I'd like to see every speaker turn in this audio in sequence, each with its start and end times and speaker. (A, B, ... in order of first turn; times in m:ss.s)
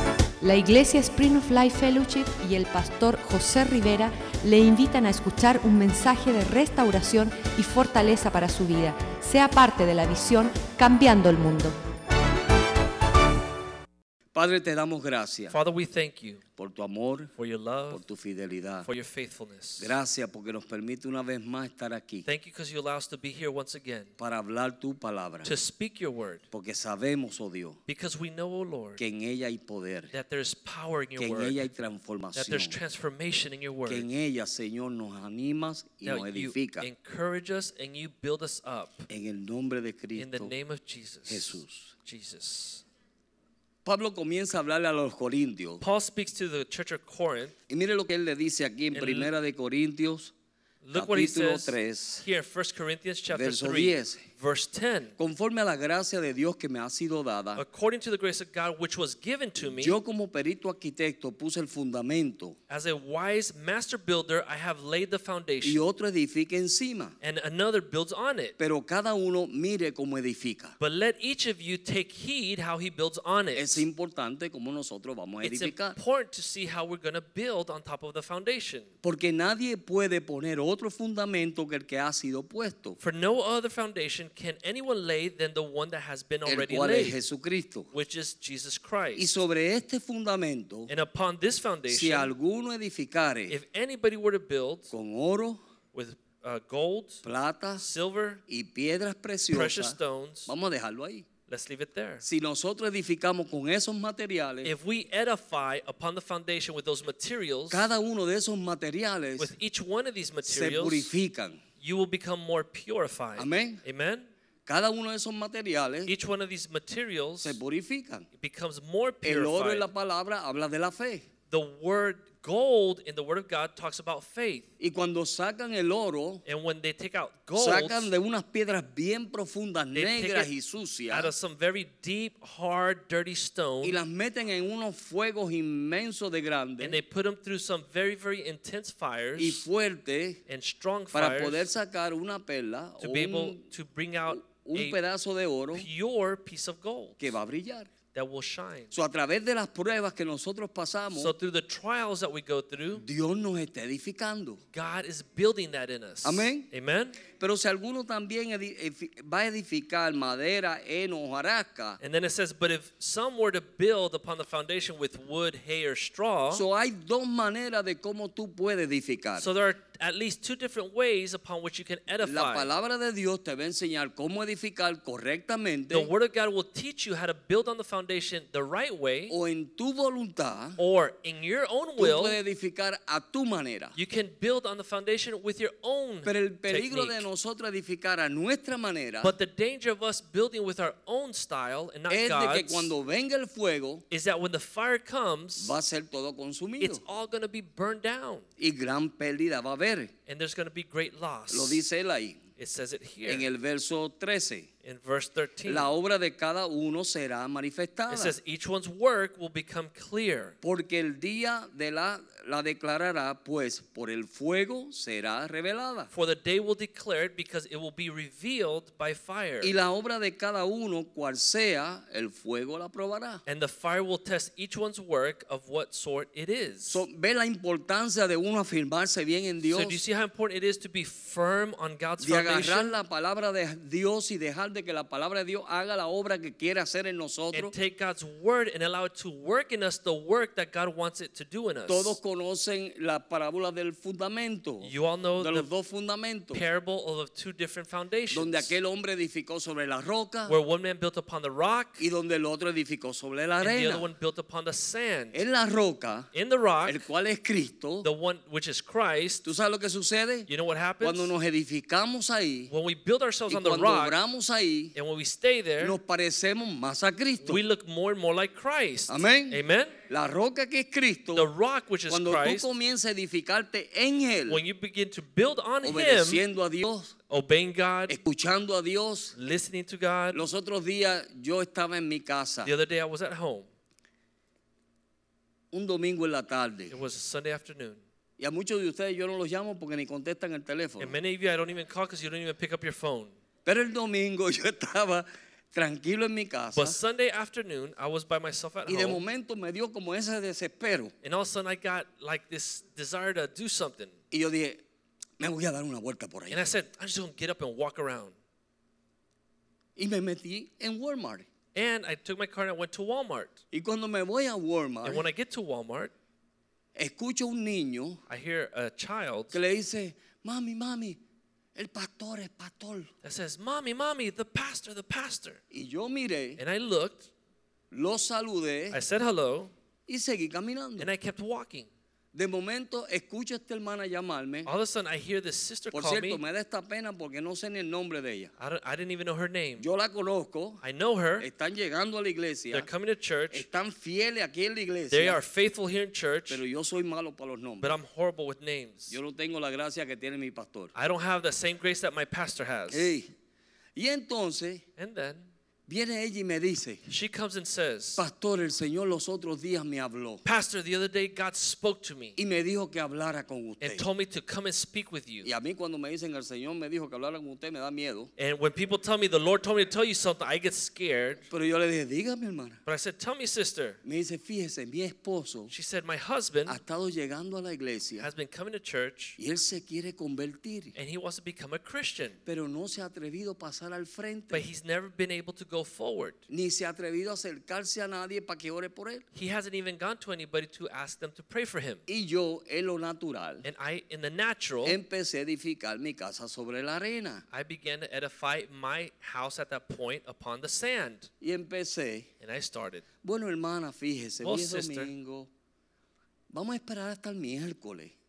0:00.4-0:11.8 A
0:14.3-0:15.5 B
0:15.5-0:16.4 C
0:16.6-0:17.3 B
0:17.4-0:18.0 C
0:17.9-0:18.9 B
0:18.8-0:20.0 C
0:19.8-0:22.3 B
0:22.2-0:24.1 C
0:24.2-0:25.5 B
0:25.4-0:26.4 C
0:26.5-0:27.8 B
0:27.9-0:29.0 C
0:29.0-0:30.1 B
0:30.1-0:31.7 C
0:31.2-0:32.8 B
0:32.3-0:34.1 C
0:33.8-0:36.9 B
0:36.0-0:39.1 C
0:39.1-0:40.6 B
0:40.1-0:42.8 C
0:41.3-0:41.9 B
0:43.8-0:45.8 B
0:45.8-0:47.6 C
0:47.7-0:50.3 B
0:48.9-0:49.3 C
0:50.8-0:55.2 C
0:50.9-0:52.2 B
0:53.3-0:54.2 B
0:55.2-0:57.6 B
0:57.6-1:00.0 C
0:59.6-1:02.6 B
1:02.7-1:05.8 C
1:05.6-1:07.2 B
1:07.2-1:08.6 C
1:08.6-1:10.7 B
1:10.8-1:13.8 C
1:13.5-1:16.0 B
1:15.4-1:18.9 C
1:19.0-1:23.0 B
1:23.0-1:27.2 C
1:26.4-1:27.9 B
1:27.9-1:29.3 C
1:29.2-1:30.9 B
1:30.9-1:32.3 C
1:31.9-1:33.6 B
1:33.5-1:34.9 C
1:34.9-1:35.6 B
1:35.9-1:37.2 C
1:37.2-1:37.8 B
1:37.8-1:38.4 C
1:38.5-1:41.3 B
1:39.5-1:40.5 C
1:41.5-1:42.2 C
1:42.2-1:44.7 B
1:44.6-1:47.9 C
1:47.7-1:49.5 B
1:49.4-1:51.1 C
1:50.4-1:51.6 B
1:51.8-1:54.3 C
1:53.4-1:53.8 B
1:54.7-1:56.1 B
1:56.1-1:57.6 C
1:57.4-1:58.3 B
1:58.4-1:59.9 C
1:59.2-2:01.2 B
2:01.5-2:04.7 C
2:04.8-2:06.4 B
2:06.4-2:08.1 C
2:07.6-2:11.3 B
2:09.9-2:10.5 C
2:11.1-2:14.0 C
2:13.8-2:17.0 B
2:16.8-2:19.6 C
2:19.4-2:20.4 B
2:20.5-2:21.7 C
2:21.1-2:23.6 B
2:23.0-2:25.0 C
2:24.3-2:25.9 B
2:25.7-2:27.3 C
2:27.2-2:27.9 B
2:28.1-2:28.9 C
2:28.9-2:31.3 B
2:31.1-2:33.0 C
2:32.9-2:34.6 B
2:34.7-2:37.2 C
2:36.2-2:36.7 B
2:37.3-2:42.0 B
2:42.0-2:46.6 C
2:46.5-2:49.5 B
2:49.4-2:52.7 C
2:52.2-2:56.1 B
2:55.9-2:59.4 C
2:59.3-3:00.8 B
3:00.8-3:02.4 C
3:02.0-3:03.9 B
3:03.9-3:07.3 C
3:06.2-3:09.3 B
3:09.2-3:12.9 C
3:12.1-3:14.0 B
3:14.1-3:15.8 C
3:15.6-3:17.0 B
3:16.8-3:18.4 C
3:18.6-3:20.1 B
3:20.2-3:21.8 C
3:21.5-3:22.4 B
3:22.6-3:23.5 C
3:23.2-3:24.7 B
3:24.8-3:25.9 C
3:25.6-3:28.3 B
3:28.1-3:30.6 C
3:30.6-3:36.1 B
3:36.1-3:39.7 C
3:39.6-3:43.4 B
3:43.4-3:47.0 C
3:46.9-3:50.0 B
3:49.6-3:53.0 C
3:52.2-3:57.7 B
3:57.5-4:02.2 C
4:01.9-4:06.6 B
4:04.8-4:05.7 C
4:06.5-4:08.7 C
4:08.3-4:10.5 B
4:10.5-4:12.0 C
4:12.0-4:14.1 B
4:13.6-4:15.4 C
4:15.3-4:16.3 B
4:16.3-4:17.0 C
4:16.8-4:18.1 B
4:18.0-4:19.4 C
4:19.4-4:20.5 B
4:20.5-4:21.3 C
4:21.0-4:22.7 B
4:22.7-4:24.2 C
4:23.5-4:24.9 B
4:24.9-4:26.0 C
4:25.8-4:27.6 B
4:27.4-4:30.0 C
4:29.1-4:31.5 B
4:31.3-4:32.7 C
4:32.1-4:34.6 B
4:34.5-4:36.4 C
4:35.8-4:37.1 B
4:37.3-4:38.2 C
4:38.1-4:39.4 B
4:39.4-4:40.5 C
4:40.3-4:42.7 B
4:42.6-4:43.7 C
4:45.7-4:47.0 B
4:46.9-4:48.0 C
4:48.4-4:51.2 B
4:51.0-4:53.3 C
4:53.6-4:57.0 B
4:56.7-4:59.2 C
4:58.9-5:01.1 B
5:01.2-5:04.2 C
5:04.3-5:04.8 B
5:05.4-5:06.6 B
5:06.5-5:08.3 C
5:10.0-5:11.4 B
5:11.7-5:13.6 C
5:13.7-5:15.2 B
5:15.0-5:16.1 C
5:17.0-5:18.2 B
5:18.3-5:19.6 C
5:19.5-5:21.2 B
5:21.7-5:23.1 B
5:23.2-5:25.6 C
5:25.7-5:26.6 B
5:26.6-5:27.3 C
5:27.9-5:29.0 B
5:28.9-5:29.7 C
5:30.1-5:31.1 B
5:31.0-5:31.9 C
5:32.3-5:34.7 B
5:34.6-5:36.4 C
5:35.9-5:38.5 B
5:38.6-5:39.8 C
5:39.8-5:40.8 B
5:40.8-5:41.5 C
5:41.4-5:42.9 B
5:42.7-5:43.6 C
5:43.5-5:45.4 B
5:45.1-5:46.6 C
5:46.5-5:47.9 B
5:47.8-5:49.2 C
5:49.1-5:50.9 B
5:50.9-5:53.1 C
5:52.9-5:53.3 B
5:53.9-5:54.8 B
5:55.0-5:55.5 C
5:55.9-5:57.0 B
5:57.1-5:58.2 C
5:58.2-6:00.4 B
6:00.4-6:02.4 C
6:02.4-6:04.0 B
6:03.8-6:05.5 C
6:05.4-6:08.3 B
6:08.4-6:11.4 C
6:11.5-6:12.8 B
6:12.8-6:14.0 C
6:14.0-6:15.7 B
6:15.7-6:16.8 C
6:16.7-6:18.3 B
6:18.2-6:19.4 C
6:19.4-6:21.0 B
6:20.9-6:22.4 C
6:22.4-6:24.6 B
6:24.5-6:26.4 C
6:26.5-6:29.2 B
6:29.3-6:32.0 C
6:32.1-6:33.6 B
6:33.6-6:35.0 C
6:34.8-6:37.4 B
6:37.5-6:41.3 C
6:41.4-6:42.3 B
6:42.4-6:43.0 C
6:43.2-6:45.5 B
6:44.4-6:45.1 C
6:46.5-6:48.1 B